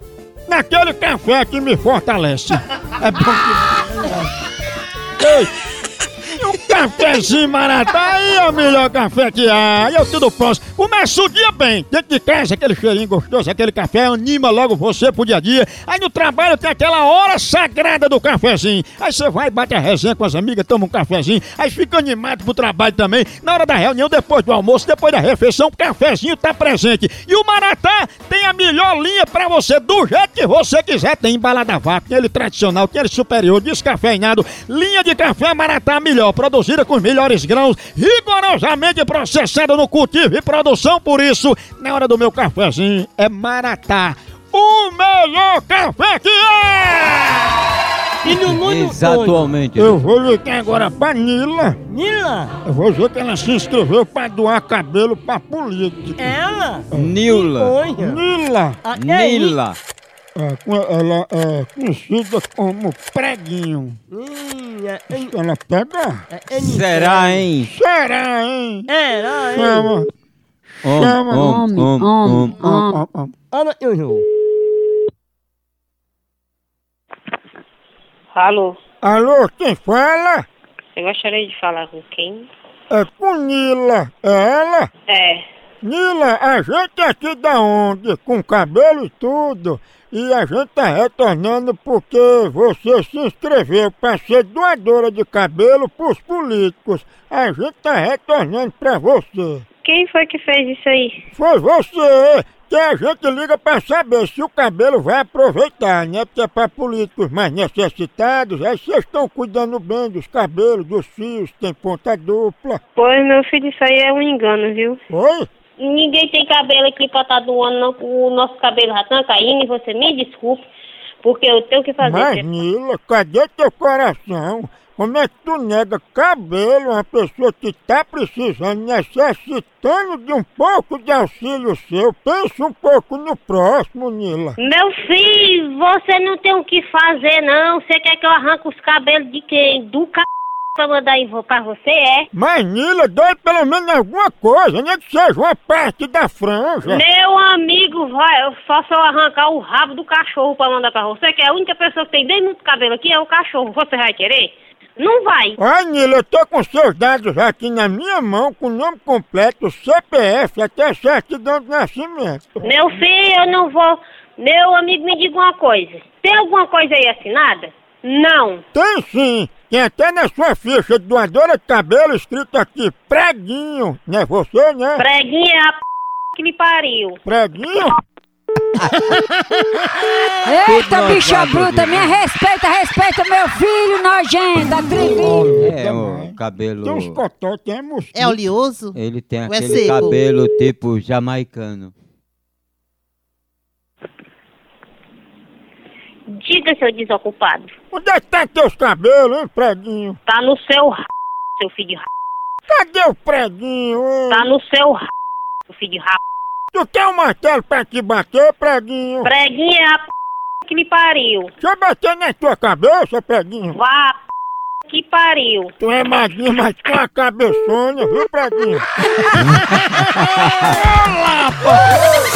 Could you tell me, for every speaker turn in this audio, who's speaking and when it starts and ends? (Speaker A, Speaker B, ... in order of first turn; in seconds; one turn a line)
Speaker A: 0.5-4.3
Speaker A: 5.2-5.5
Speaker A: 6.3-47.6
Speaker B: 48.2-49.5
Speaker C: 48.2-50.0
Speaker A: 49.8-51.8
Speaker B: 51.9-52.5
Speaker A: 52.6-56.3
Speaker B: 56.2-58.2
Speaker A: 56.9-57.2
Speaker C: 56.9-57.7
Speaker A: 58.0-58.8
Speaker B: 58.9-59.6
Speaker C: 58.9-59.8
Speaker A: 60.4-64.0
Speaker B: 64.1-65.3
Speaker A: 65.1-66.2
Speaker B: 66.3-67.4
Speaker C: 66.6-67.7
Speaker A: 67.5-68.9
Speaker B: 68.9-69.9
Speaker A: 69.5-70.1
Speaker C: 70.8-72.6
Speaker A: 70.9-71.8
Speaker D: 71.4-73.0
Speaker A: 72.5-73.3
Speaker B: 73.5-74.2
Speaker E: 78.3-78.8
Speaker A: 79.0-80.5
Speaker E: 81.0-82.5
Speaker A: 82.9-84.9
Speaker E: 85.1-85.5
Speaker A: 85.8-99.7
Speaker E: 99.8-101.2
Speaker A: 101.3-112.8
Speaker E: 113.0-115.0
Speaker A: 115.1-115.5
Speaker E: 115.8-120.7
Speaker E: 121.2-122.4
Speaker A: 122.0-134.6
Speaker E: 134.6-142.3
Speaker A: 142.3-147.0
Speaker E: 146.8-155.6
Speaker A: 155.6-162.6
Speaker E: 162.6-168.6
Speaker A: 168.7-175.1
Speaker E: 175.0-175.8
Speaker E: 176.3-177.2
Speaker A: 177.3-177.9
Speaker C: 178.8-179.1
Speaker D: 180.4-185.6
Speaker C: 180.6-182.2
Speaker A: 185.1-188.4
Speaker C: 185.5-187.2
Speaker F: 188.1-190.2
Speaker C: 188.9-191.9
Speaker E: 196.3-197.7
Speaker A: 197.9-200.2
Speaker E: 200.3-201.0
Speaker E: 201.6-202.1
Speaker A: 202.7-204.5
Speaker E: 204.3-205.1
Speaker E: 205.7-206.2
Speaker A: 206.7-209.3
Speaker E: 209.2-210.1
Speaker E: 210.6-211.5
Speaker A: 211.6-213.8
Speaker E: 213.8-214.2
Speaker E: 214.9-215.7
Speaker A: 215.8-218.8
Speaker A: 219.4-221.9
Speaker C: 219.4-220.7